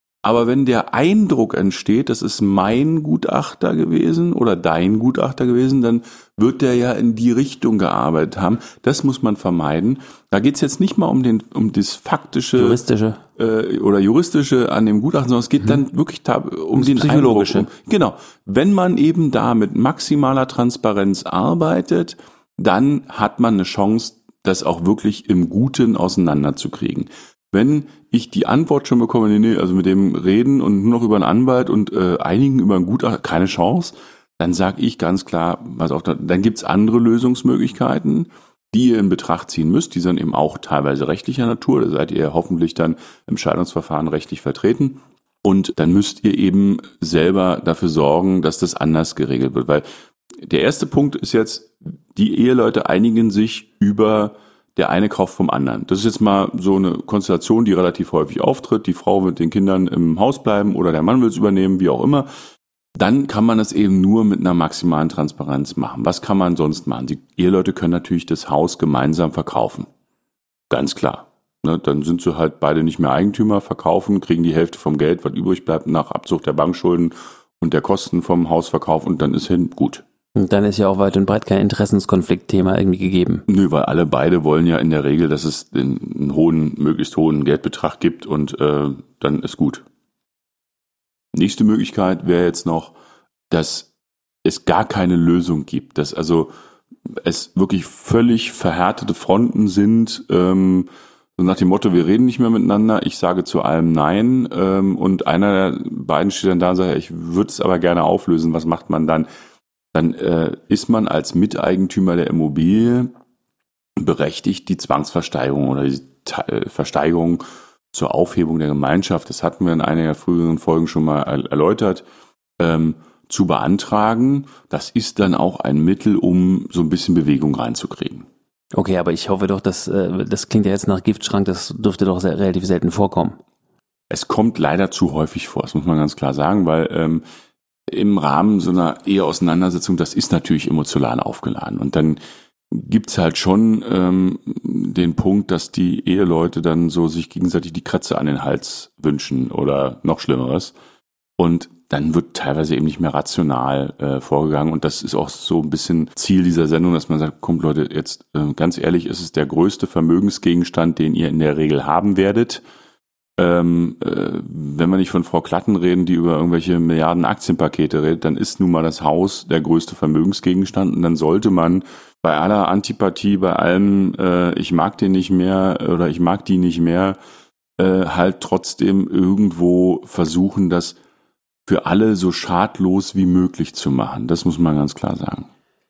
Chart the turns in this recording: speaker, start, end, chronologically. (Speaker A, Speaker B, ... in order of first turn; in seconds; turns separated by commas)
Speaker A: 0.2-12.8, Speaker B: 12.6-13.2, Speaker A: 13.4-49.9, Speaker B: 16.8-17.7, Speaker A: 50.4-62.3, Speaker A: 63.0-69.9, Speaker A: 70.7-80.0, Speaker B: 80.4-83.4, Speaker A: 83.5-89.8, Speaker A: 91.3-92.9, Speaker A: 93.5-93.9, Speaker A: 94.5-96.5, Speaker A: 97.1-109.3, Speaker A: 109.9-113.1, Speaker A: 114.0-122.0, Speaker A: 122.6-128.3, Speaker B: 128.7-133.4, Speaker A: 134.1-137.2, Speaker A: 137.9-150.7, Speaker A: 151.4-162.6, Speaker A: 163.4-177.2, Speaker A: 177.8-181.0, Speaker A: 181.7-185.5